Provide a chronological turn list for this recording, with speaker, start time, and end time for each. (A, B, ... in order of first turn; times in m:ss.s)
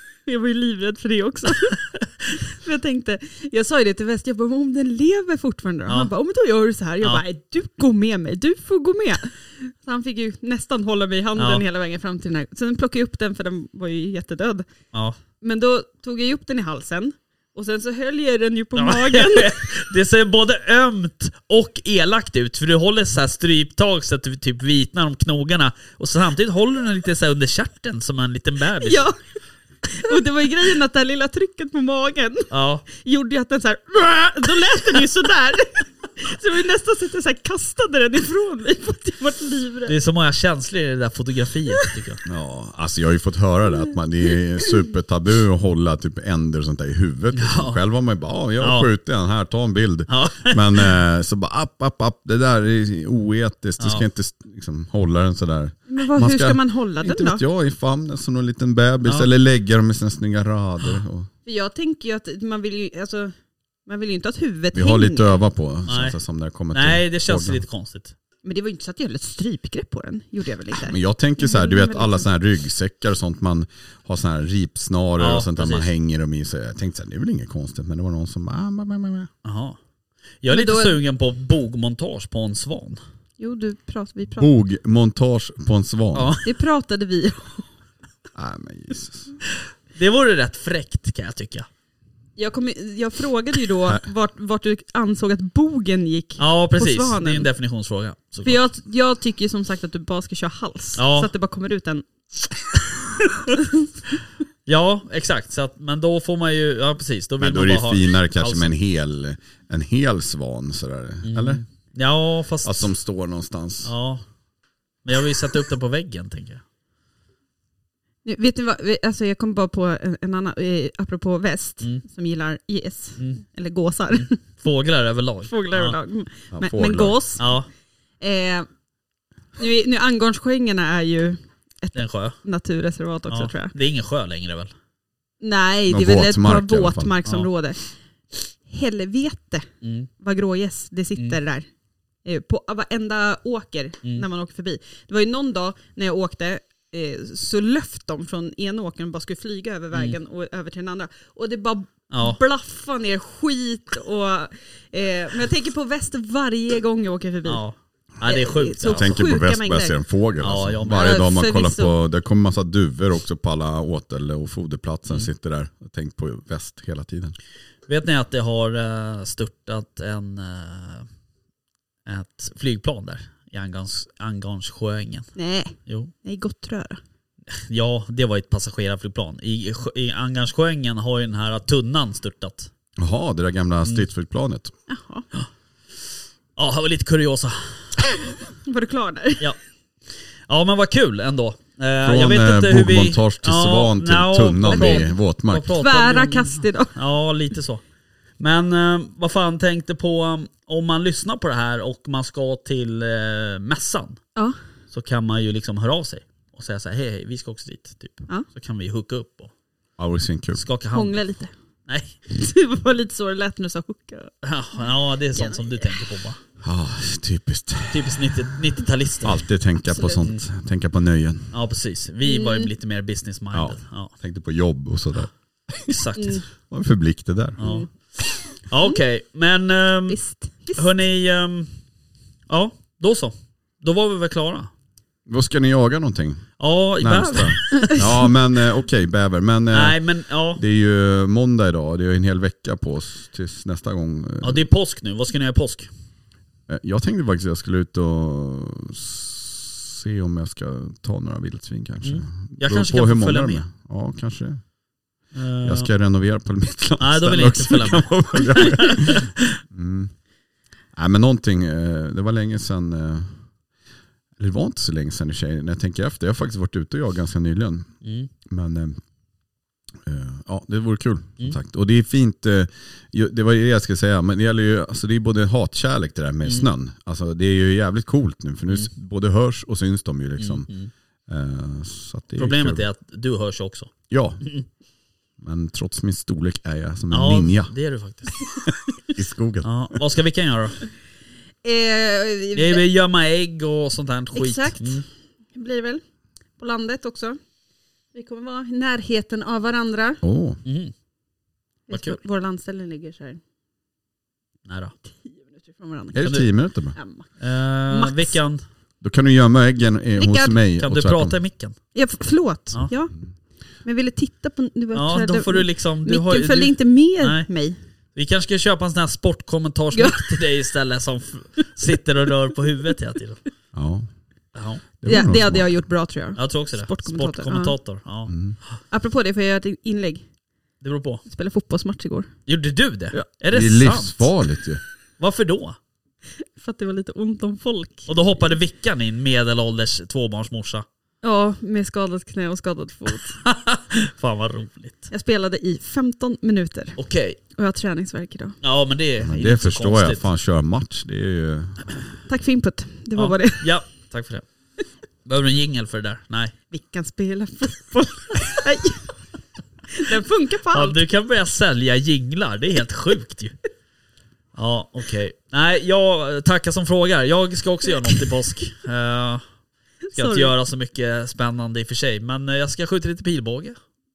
0:00.2-0:14.7 A
0:11.4-0:11.6 B
0:15.4-0:19.6 A
0:18.8-0:29.0 B
0:28.8-0:29.2 A
0:29.8-0:39.9 A
0:32.5-0:32.8 B
0:39.9-0:42.2 B
0:42.2-1:01.3 C
0:47.3-0:47.8 B
0:48.6-0:48.9 B
0:50.1-0:51.0 B
0:53.8-0:54.0 B
0:55.9-0:57.4 A
1:01.4-1:03.3 A
1:03.8-1:05.4 A
1:04.7-1:07.6 C
1:05.9-1:06.2 B
1:06.7-1:08.1 B
1:08.4-1:12.3 A
1:10.8-1:19.3 C
1:15.2-1:15.9 B
1:19.4-1:19.8 B
1:20.4-1:23.0 B
1:20.5-1:21.0 A
1:23.4-1:24.5 A
1:24.4-1:26.4 C
1:26.1-1:26.4 B
1:26.4-1:27.7 A
1:28.3-1:29.3 C
1:29.9-1:31.7 B
1:32.4-1:37.5 A
1:36.4-1:38.6 B
1:38.4-1:42.0 A
1:41.0-1:41.3 B
1:42.7-1:43.9 A
1:44.6-1:48.7 B
1:47.4-1:51.6 C
1:51.2-1:52.9 B
1:52.6-1:53.9 C
1:53.8-1:54.2 B
1:55.0-1:56.6 B
1:58.2-2:04.4 A
2:04.1-2:06.0 B
2:05.5-2:07.5 A
2:06.5-2:07.2 C
2:07.4-2:07.7 B
2:08.2-2:08.7 A
2:09.6-2:13.7 A
2:11.9-2:12.4 B
2:13.3-2:14.7 B
2:15.4-2:17.8 A
2:15.9-2:17.1 C
2:18.7-2:19.7 A
2:19.8-2:20.1 B
2:20.2-2:21.7 A
2:22.2-2:37.6 A
2:32.1-2:32.4 B
2:37.4-2:39.2 B
2:38.2-2:40.0 A
2:38.9-2:47.4 C
2:40.4-2:41.1 B
2:40.9-2:41.9 A
2:47.9-2:51.1 B
2:52.0-2:55.3 B
2:55.4-2:57.0 A
2:55.9-2:56.1 B
2:57.5-3:02.7 B
3:03.0-3:04.7 C
3:04.9-3:05.3 A
3:06.6-3:08.1 B
3:08.6-3:09.5 A
3:10.5-3:17.8 B
3:12.0-3:15.8 C
3:14.7-3:15.1 A
3:15.8-3:16.9 A
3:18.4-3:24.2 B
3:24.9-3:29.5 B
3:30.0-3:30.6 C
3:30.6-3:31.2 B
3:30.9-3:31.5 A
3:31.9-3:32.2 B
3:32.3-3:34.3 A
3:34.4-3:36.4 B
3:35.3-3:36.1 A
3:36.6-3:38.6 C
3:37.9-3:39.5 B
3:39.2-3:41.5 C
3:39.9-3:40.2 A
3:41.5-3:44.1 B
3:42.2-3:42.7 A
3:43.5-3:46.0 C
3:45.9-3:46.4 B
3:46.2-3:46.4 A
3:46.7-3:47.6 C
3:47.6-3:47.9 B
3:47.6-3:47.9 A
3:48.7-3:50.2 B
3:50.1-3:50.9 A
3:50.7-3:51.7 B
3:52.5-3:54.7 B
3:55.3-4:00.0 C
3:56.6-3:58.3 B
3:57.7-3:58.0 A
3:59.7-4:00.6 B
4:00.5-4:04.7 C
4:04.4-4:05.9 B
4:06.7-4:14.6 C
4:12.0-4:13.6 B
4:15.3-4:15.9 B
4:15.6-4:20.1 C
4:17.0-4:19.6 B
4:20.9-4:23.4 C
4:24.4-4:27.9 C
4:28.0-4:28.3 B
4:28.4-4:29.0 C
4:30.0-4:40.7 C
4:40.4-4:40.9 B
4:41.3-4:42.8 C
4:42.4-4:43.9 B
4:44.1-4:44.4 C
4:45.4-4:47.7 C
4:47.1-4:48.6 B
4:49.1-4:50.0 C
4:49.6-4:50.8 B
4:51.6-4:52.8 A
4:52.5-4:55.0 B
4:54.3-4:55.0 A
4:55.5-4:56.0 A
4:56.6-4:57.4 A
4:58.1-5:00.2 A
5:00.2-5:00.6 C
5:00.6-5:00.9 B
5:01.9-5:03.4 A
5:01.9-5:02.2 B
5:04.6-5:04.9 B
5:05.1-5:06.3 A
5:06.1-5:07.0 C
5:06.2-5:06.5 B
5:06.9-5:07.3 A
5:07.4-5:08.6 B
5:07.9-5:08.4 A
5:09.0-5:11.4 C
5:10.2-5:10.5 A
5:10.8-5:11.8 B
5:11.9-5:13.2 A
5:13.8-5:17.8 A
5:14.9-5:17.5 B
5:18.1-5:23.4 B
5:19.9-5:20.4 A
5:23.7-5:24.1 C
5:24.5-5:24.8 B
5:25.0-5:25.7 C
5:25.0-5:27.8 A
5:26.4-5:28.3 B
5:28.3-5:28.6 C
5:28.9-5:30.2 A
5:30.8-5:31.2 B
5:31.3-5:32.3 A
5:32.5-5:34.3 B
5:33.1-5:34.8 C
5:35.2-5:35.8 B
5:36.4-5:38.1 A
5:38.1-5:40.8 B
5:41.2-5:43.4 A
5:43.4-5:45.1 B
5:45.1-5:47.0 A
5:47.0-5:47.4 B
5:47.5-5:48.6 A
5:48.6-5:50.2 B
5:49.2-5:52.0 C
5:52.3-5:53.7 A
5:53.2-5:54.4 B
5:55.2-5:56.5 B
5:56.7-5:59.1 A
5:59.9-6:01.0 A
6:00.7-6:03.5 B
6:04.5-6:09.4 B
6:10.0-6:10.5 A
6:10.1-6:13.8 B